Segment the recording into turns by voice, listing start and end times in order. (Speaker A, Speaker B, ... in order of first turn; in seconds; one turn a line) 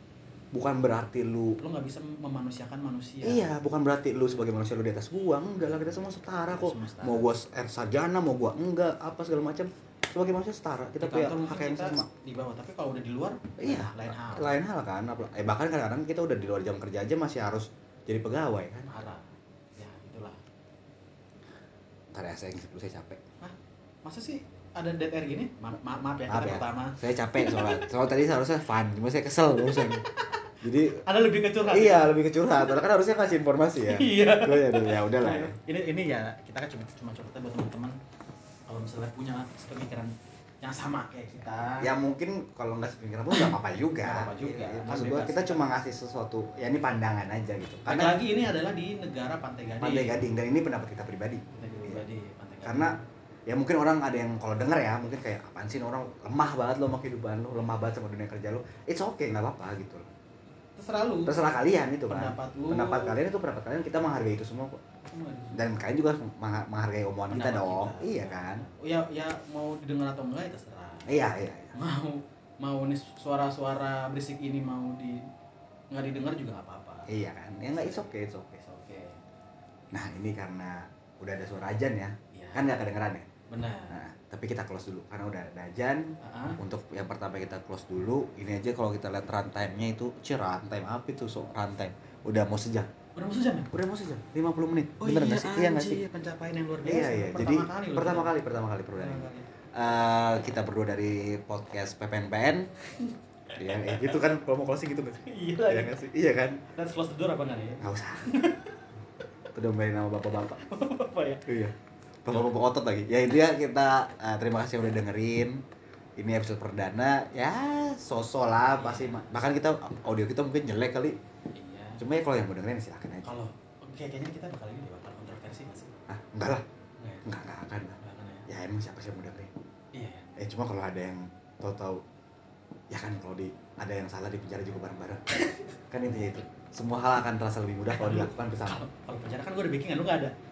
Speaker A: 0.5-1.6
Speaker B: 1.6-3.5
Speaker A: 3.2-12.1
Speaker B: 6.5-7.3
Speaker B: 11.0-14.5
Speaker A: 13.6-18.9
Speaker B: 18.9-20.4
Speaker A: 22.1-23.2
Speaker B: 23.4-27.8
Speaker A: 26.3-30.1
Speaker B: 30.1-30.5
Speaker A: 30.6-31.0
Speaker B: 31.1-32.8
Speaker A: 31.7-35.6
Speaker B: 33.9-38.0
Speaker B: 38.7-41.9
Speaker A: 41.8-48.2
Speaker B: 43.3-45.6
Speaker B: 47.9-50.2
Speaker A: 49.8-52.0
Speaker B: 51.5-53.0
Speaker A: 52.6-52.9
Speaker A: 53.5-60.1
Speaker B: 60.8-61.4
Speaker A: 61.3-64.8
Speaker B: 62.1-63.2
Speaker B: 65.1-65.6
Speaker A: 65.5-68.7
Speaker B: 67.3-71.1
Speaker A: 71.1-71.8
Speaker B: 71.8-75.3
Speaker B: 75.9-77.1
Speaker A: 77.1-78.6
Speaker B: 77.8-79.2
Speaker A: 79.9-83.3
Speaker B: 82.3-82.7
Speaker B: 83.5-84.0
Speaker A: 83.9-92.9
Speaker B: 86.2-86.6
Speaker B: 93.2-93.7
Speaker A: 93.7-96.0
Speaker B: 95.0-98.3
Speaker A: 96.8-102.7
Speaker B: 99.0-99.5
Speaker B: 103.0-104.2
Speaker A: 103.6-106.6
Speaker B: 105.2-106.0
Speaker B: 106.8-108.8
Speaker A: 107.8-108.3
Speaker A: 109.5-110.6
Speaker B: 110.6-111.4
Speaker A: 111.5-111.7
Speaker A: 112.2-115.6
Speaker A: 116.2-121.2
Speaker B: 118.8-119.2
Speaker B: 121.6-122.0
Speaker A: 122.0-123.3
Speaker B: 123.2-126.0
Speaker A: 126.1-126.6
Speaker B: 127.0-127.2
Speaker A: 127.2-128.0
Speaker B: 128.0-128.5
Speaker A: 128.5-129.5
Speaker B: 129.9-130.3
Speaker A: 130.4-132.0
Speaker A: 132.9-135.2
Speaker A: 135.9-138.8
Speaker B: 137.9-140.3